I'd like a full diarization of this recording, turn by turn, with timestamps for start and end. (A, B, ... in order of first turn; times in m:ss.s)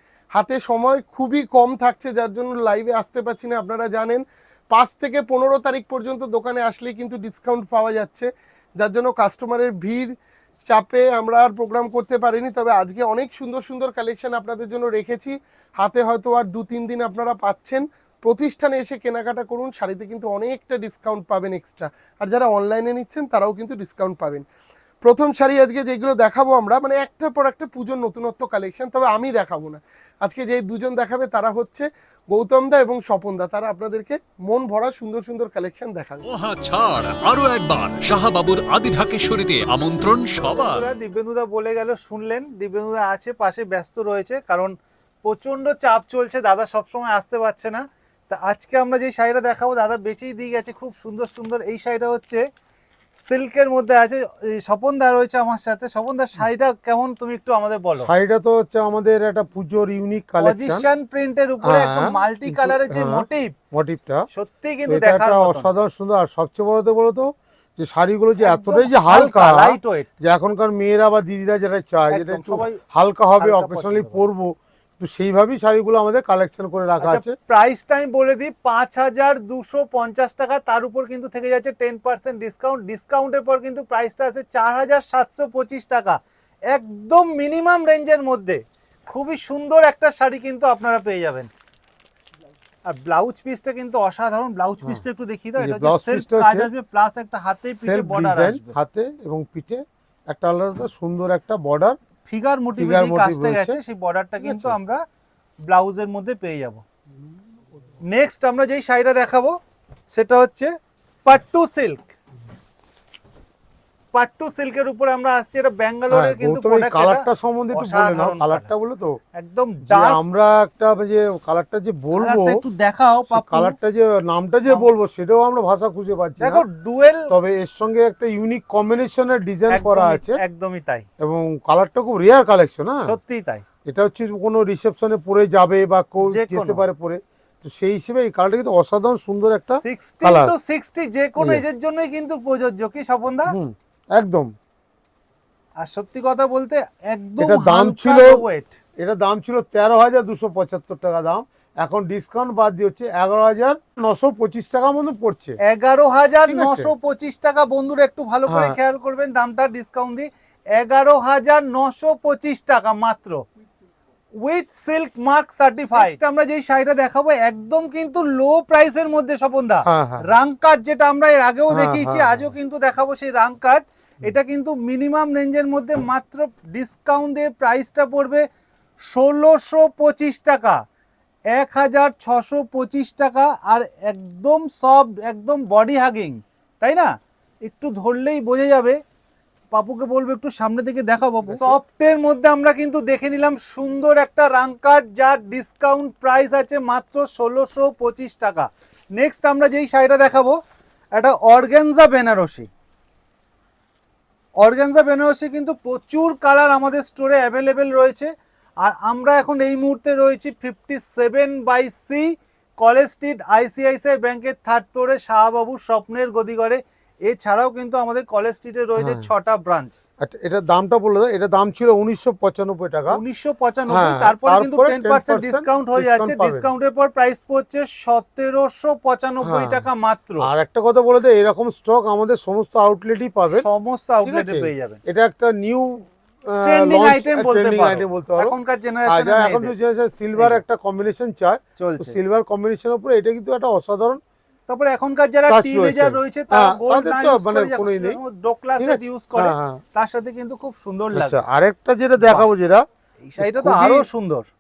0:00.3-0:10.1 A
0:10.6-0:24.4 A
0:25.0-0:36.2 A
0:36.3-0:40.8 B
0:40.5-0:52.4 C
0:53.2-0:58.1 C
0:58.0-1:00.8 D
1:00.4-1:03.5 C
1:01.6-1:04.3 D
1:04.3-1:05.7 C
1:04.9-1:17.3 D
1:08.4-1:10.1 C
1:12.1-1:12.8 C
1:13.4-1:14.2 C
1:17.0-1:31.5 C
1:32.9-1:38.8 C
1:35.6-1:36.7 D
1:37.6-1:42.0 D
1:42.3-1:45.0 C
1:42.8-1:43.8 D
1:44.4-1:44.8 D
1:45.6-1:46.8 C
1:48.1-1:49.6 C
1:50.1-1:50.7 C
1:51.2-1:52.1 C
1:54.1-1:58.7 C
1:56.1-1:59.2 D
1:59.3-2:00.2 C
1:59.9-2:02.6 D
2:02.1-2:03.8 C
2:03.3-2:06.6 D
2:06.4-2:07.3 C
2:07.3-2:10.4 D
2:09.7-2:11.1 C
2:11.2-2:13.2 D
2:13.0-2:13.6 C
2:13.8-2:20.5 D
2:16.2-2:16.8 C
2:19.6-2:23.5 C
2:21.4-2:21.6 D
2:23.5-2:24.5 D
2:25.8-2:28.8 C
2:27.4-2:28.4 D
2:29.0-2:35.6 D
2:35.6-2:43.4 C
2:36.5-2:36.9 D
2:38.5-2:38.8 D
2:44.4-2:58.4 C
2:49.9-2:50.2 D
2:51.7-2:52.5 D
2:59.1-3:00.8 C
3:01.5-3:07.1 C
3:07.6-3:09.0 C
3:09.7-3:20.6 C
3:11.4-3:11.8 D
3:21.1-3:22.7 C
3:24.6-3:28.3 C
3:28.8-3:40.0 C
3:39.0-3:39.3 D
3:40.2-3:43.2 D
3:43.1-3:50.5 C
3:43.9-3:46.7 D
3:49.4-3:49.8 D
3:50.4-3:53.7 D
3:53.5-3:55.0 C
3:54.2-3:58.6 D
3:56.6-3:59.7 C
3:59.1-4:04.2 D
4:00.4-4:00.6 C
4:01.8-4:02.2 C
4:04.7-4:11.4 C
4:05.5-4:08.2 D
4:08.8-4:09.8 D
4:11.1-4:12.8 D
4:12.2-4:12.5 C
4:13.2-4:14.4 C
4:13.4-4:14.1 D